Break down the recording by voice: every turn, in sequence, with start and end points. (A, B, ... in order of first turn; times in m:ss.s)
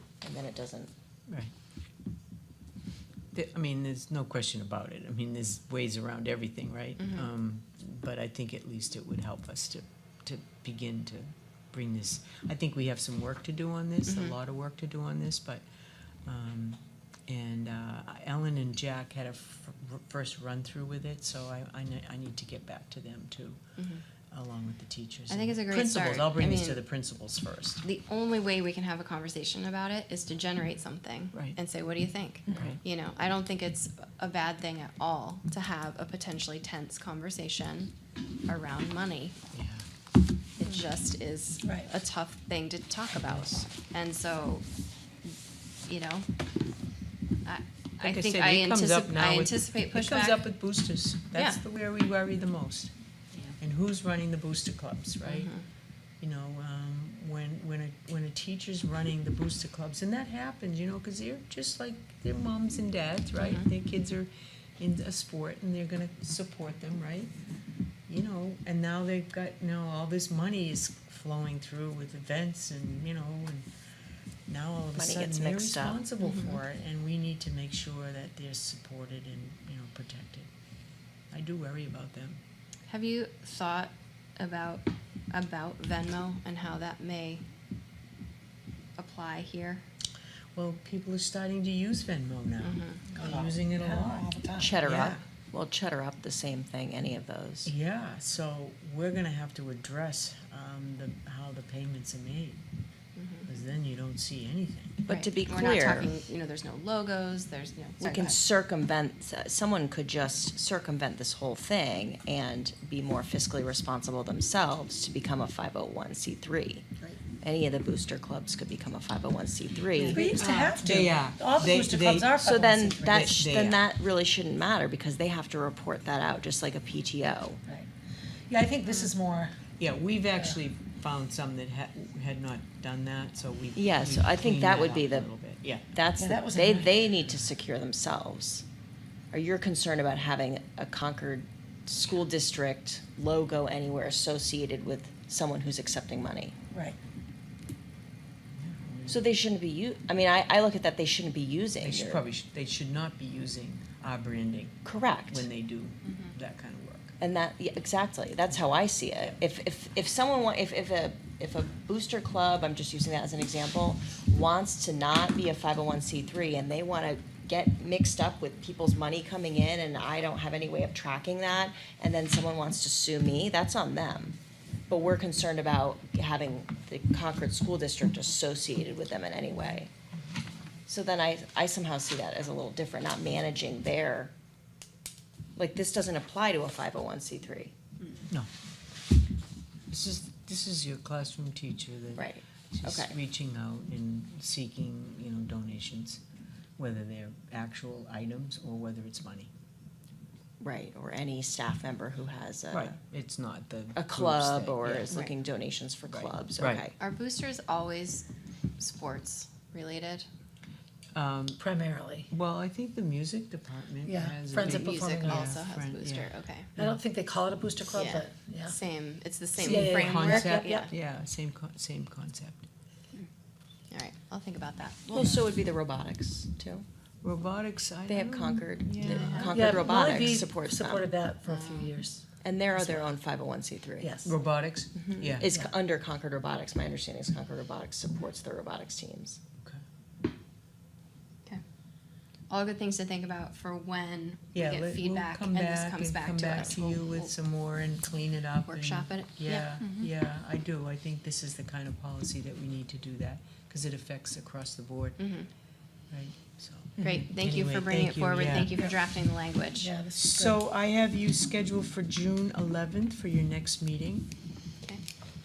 0:00.2-0:00.9 A
0:03.3-0:15.6 B
0:07.0-0:07.2 C
0:14.0-0:14.3 C
0:16.2-0:23.6 B
0:23.8-0:24.0 C
0:24.3-0:27.8 B
0:25.3-0:26.8 C
0:27.8-0:37.9 C
0:32.5-0:32.8 A
0:32.5-0:32.8 B
0:38.4-0:39.4 C
0:39.5-0:39.8 B
0:40.6-0:44.6 C
0:41.6-0:41.9 D
0:43.1-0:43.5 B
0:45.8-0:46.3 C
0:47.4-0:50.5 C
0:48.0-0:52.9 B
0:51.3-0:51.6 C
0:53.6-0:55.5 B
0:55.2-0:55.6 C
0:56.2-1:07.3 B
1:03.4-1:03.7 C
1:08.1-1:13.6 B
1:14.5-1:20.5 B
1:14.9-1:16.0 A
1:16.2-1:16.6 C
1:21.3-1:22.4 B
1:22.9-1:27.4 C
1:29.0-1:29.8 C
1:30.5-1:35.2 B
1:32.6-1:33.1 C
1:33.1-1:34.7 D
1:34.6-1:37.7 A
1:37.6-1:42.6 B
1:43.2-1:43.5 C
1:43.4-1:45.0 B
1:45.0-1:46.3 A
1:45.1-1:48.4 C
1:48.0-2:00.4 A
2:00.0-2:00.8 C
2:00.0-2:03.4 D
2:00.3-2:02.3 B
2:02.4-2:07.6 A
2:03.0-2:03.8 B
2:08.5-2:09.5 D
2:08.8-2:09.1 C
2:09.8-2:15.9 B
2:13.7-2:15.3 A
2:15.9-2:18.6 A
2:16.2-2:16.9 D
2:19.3-2:26.5 A
2:28.6-2:29.2 B
2:29.1-2:32.2 A
2:31.8-2:37.1 B
2:34.8-2:35.5 A
2:36.0-2:36.3 C
2:37.2-2:54.4 A
2:38.5-2:39.4 B
2:54.9-2:59.9 A
3:00.9-3:04.3 A
3:05.6-3:07.7 A
3:09.9-3:16.2 B
3:12.2-3:13.1 A
3:16.8-3:19.5 B
3:20.6-3:23.0 A
3:22.7-3:25.2 B
3:23.9-3:27.0 A
3:26.1-3:26.8 B
3:27.0-3:28.3 C
3:28.8-3:30.3 C
3:31.1-3:31.6 B
3:31.6-3:32.3 D
3:32.3-3:37.0 B
3:34.0-3:35.5 D
3:34.5-3:36.7 C
3:36.8-3:38.8 D
3:37.9-3:40.9 C
3:39.6-3:40.9 D
3:39.6-3:42.6 B
3:43.9-3:45.2 C
3:45.1-3:46.8 A
3:47.2-3:49.7 B
3:48.1-3:51.0 A
3:49.0-3:49.6 C
3:49.2-3:52.2 D
3:51.4-3:52.0 C
3:52.4-3:54.2 A
3:54.0-3:54.3 D
3:54.2-3:55.5 B
3:54.9-3:59.4 A
4:02.5-4:07.3 C
4:04.5-4:15.2 B
4:08.6-4:10.1 C
4:15.2-4:15.5 C
4:16.1-4:18.8 B
4:17.0-4:17.3 A
4:17.0-4:19.9 C
4:19.8-4:20.6 D
4:20.1-4:24.3 B